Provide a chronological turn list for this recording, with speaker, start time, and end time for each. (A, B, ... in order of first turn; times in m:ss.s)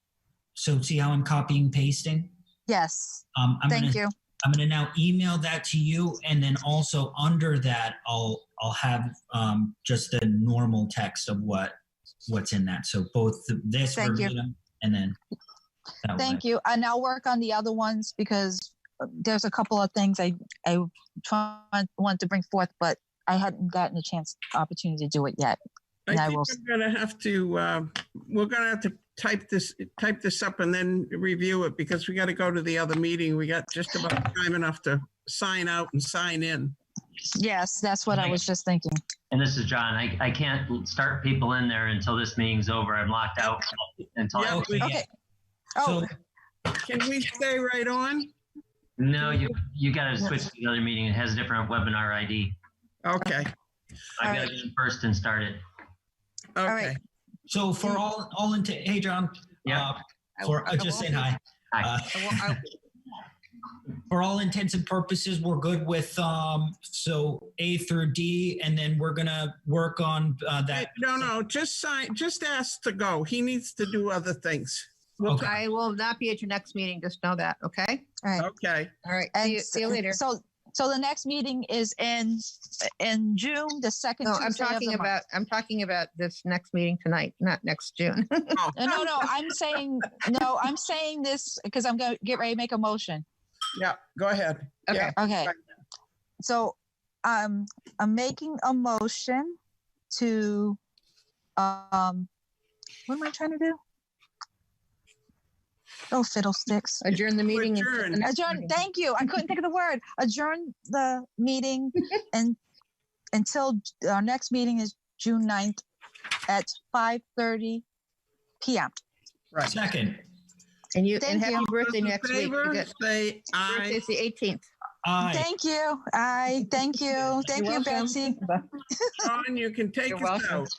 0:00.5-0:02.3 A
0:02.7-0:04.1 B
0:03.3-0:15.2 A
0:13.9-0:14.3 B
0:16.0-0:16.4 A
0:16.2-0:25.6 B
0:26.1-0:36.8 C
0:26.1-0:26.5 B
0:37.3-0:39.0 B
0:39.3-0:44.9 D
0:44.3-0:44.9 C
0:44.4-0:45.0 A
0:44.8-0:45.0 B
0:45.8-0:46.1 B
0:45.8-0:46.1 A
0:46.8-0:48.3 C
0:49.0-0:52.6 D
0:53.0-0:53.5 C
0:54.2-0:55.6 D
0:54.2-0:54.5 B
0:56.6-0:57.0 C
0:56.6-0:57.0 B
0:57.5-1:02.6 A
1:00.4-1:01.2 E
1:02.2-1:02.6 E
1:04.1-1:11.3 A
1:10.7-1:14.9 C
1:15.2-1:18.2 E
1:15.2-1:15.6 A
1:18.2-1:18.5 B
1:18.4-1:18.9 C
1:19.0-1:20.2 E
1:19.3-1:25.1 B
1:24.2-1:28.6 E
1:28.5-1:29.2 C
1:28.7-1:33.2 B
1:33.8-1:35.1 C
1:34.9-1:35.1 E
1:35.2-1:35.5 B
1:36.4-1:39.6 B
1:40.1-1:40.8 B
1:41.6-1:42.3 B
1:43.1-1:43.8 B
1:46.1-1:47.1 B
1:47.0-1:48.8 E
1:47.5-1:48.4 C
1:48.2-1:52.6 B
1:53.3-1:55.8 B
1:56.5-1:57.8 B
1:58.6-1:58.9 B
1:59.6-2:00.2 A
2:00.9-2:02.9 E
2:01.2-2:01.7 B
2:01.6-2:04.0 C
2:03.6-2:04.6 E
2:05.0-2:05.5 A
2:05.2-2:09.2 B
2:07.4-2:08.3 E
2:09.2-2:10.7 C
2:10.1-2:10.7 E